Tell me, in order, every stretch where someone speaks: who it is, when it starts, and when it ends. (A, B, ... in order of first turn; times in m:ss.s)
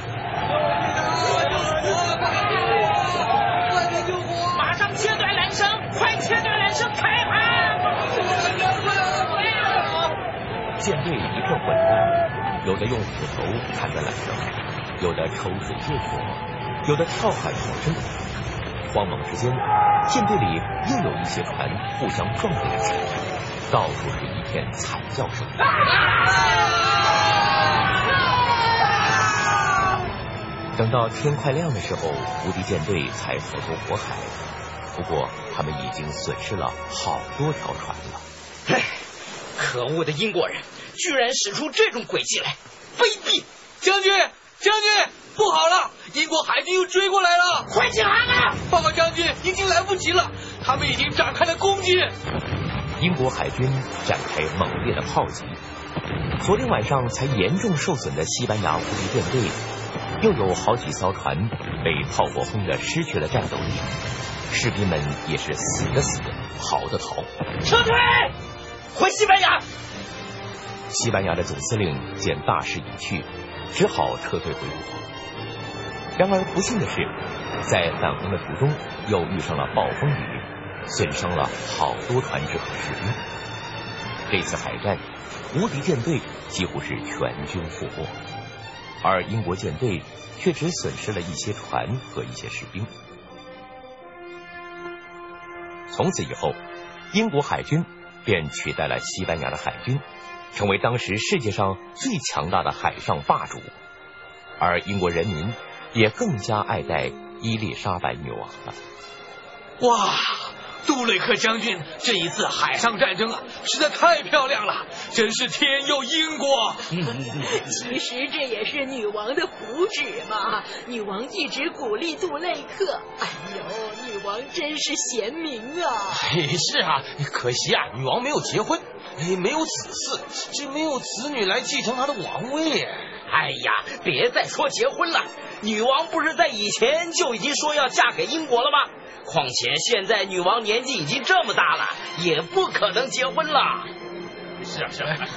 0:00.8-0:04.6 A
0:04.5-0:07.8 B
0:08.1-0:09.6 A
0:10.8-0:18.2 C
0:18.9-0:25.6 C
0:30.7-0:34.4 C
0:35.0-0:38.3 C
0:38.7-0:39.0 B
0:39.6-0:43.4 B
0:43.8-0:47.8 A
0:47.7-0:48.6 B
0:48.5-0:52.2 A
0:53.0-0:55.6 C
0:56.4-0:59.6 C
1:00.2-1:07.3 C
1:07.6-1:08.3 B
1:08.9-1:09.6 B
1:10.9-1:15.1 C
1:16.2-1:23.2 C
1:24.3-1:28.2 C
1:29.0-1:32.9 C
1:35.9-1:43.8 C
1:44.6-1:48.8 C
1:49.8-1:56.9 A
1:57.0-2:06.2 D
2:06.1-2:13.1 E
2:13.3-2:23.9 B
2:24.7-2:25.1 B